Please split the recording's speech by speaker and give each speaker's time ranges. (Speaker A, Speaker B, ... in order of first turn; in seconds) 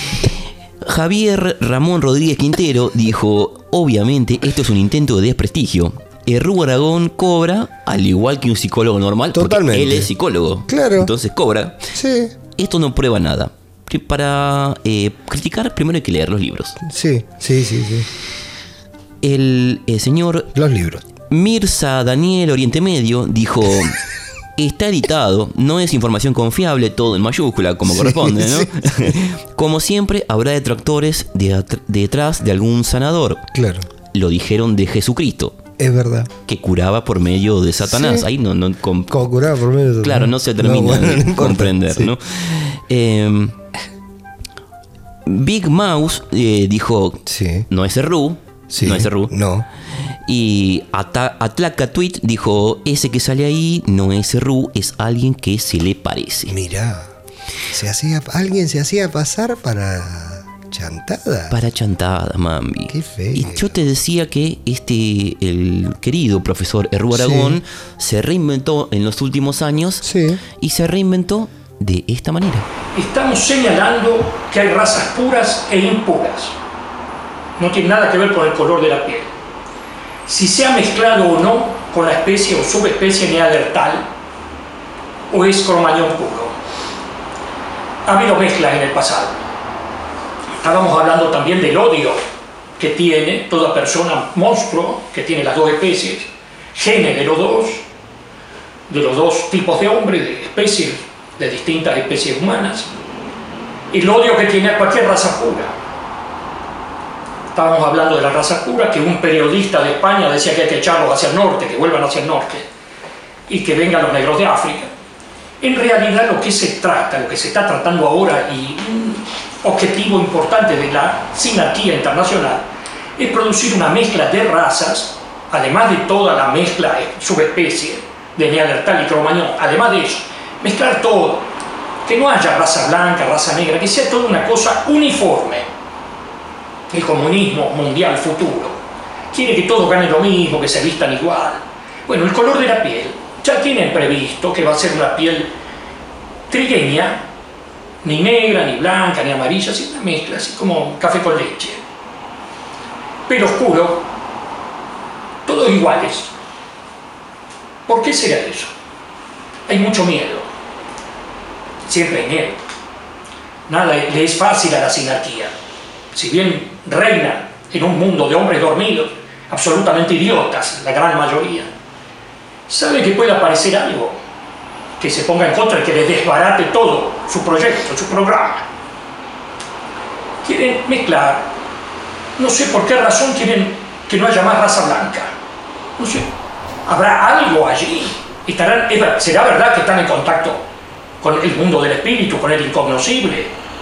Speaker A: 0.8-11.8, 12.6-16.8, 19.2-20.5, 21.3-24.0, 24.6-33.5, 34.1-35.6, 36.5-39.2, 40.0-43.5, 45.2-49.3, 50.3-56.5, 61.5-70.0, 70.6-72.7
Speaker B: 9.3-10.1, 10.7-11.1, 11.9-12.3, 16.8-18.1, 20.5-21.0, 27.9-29.1, 33.5-33.9, 35.8-36.3, 37.8-38.2, 39.1-42.1, 47.3-47.6, 48.7-49.6, 56.5-57.1, 57.7-61.5, 62.9-63.7, 67.1-67.6, 70.0-70.4
Speaker C: 72.9-76.5, 77.6-79.3, 80.3-84.0, 85.3-86.5, 88.0-89.4, 90.6-92.2, 92.8-97.8, 98.9-102.9, 103.9-105.7, 107.5-112.7, 113.5-114.9, 115.6-122.6, 123.2-131.5, 132.0-135.7, 136.9-138.8, 139.3-145.5, 146.5-147.2, 148.0-151.8, 153.3-154.0, 155.4-156.3, 157.9-158.7, 159.7-160.5, 161.8-162.6, 163.7-165.5, 166.1-171.7, 172.7-174.2, 175.0-178.6, 180.4-181.5, 182.4-185.3, 186.0-186.3, 186.8-190.6, 191.2-193.5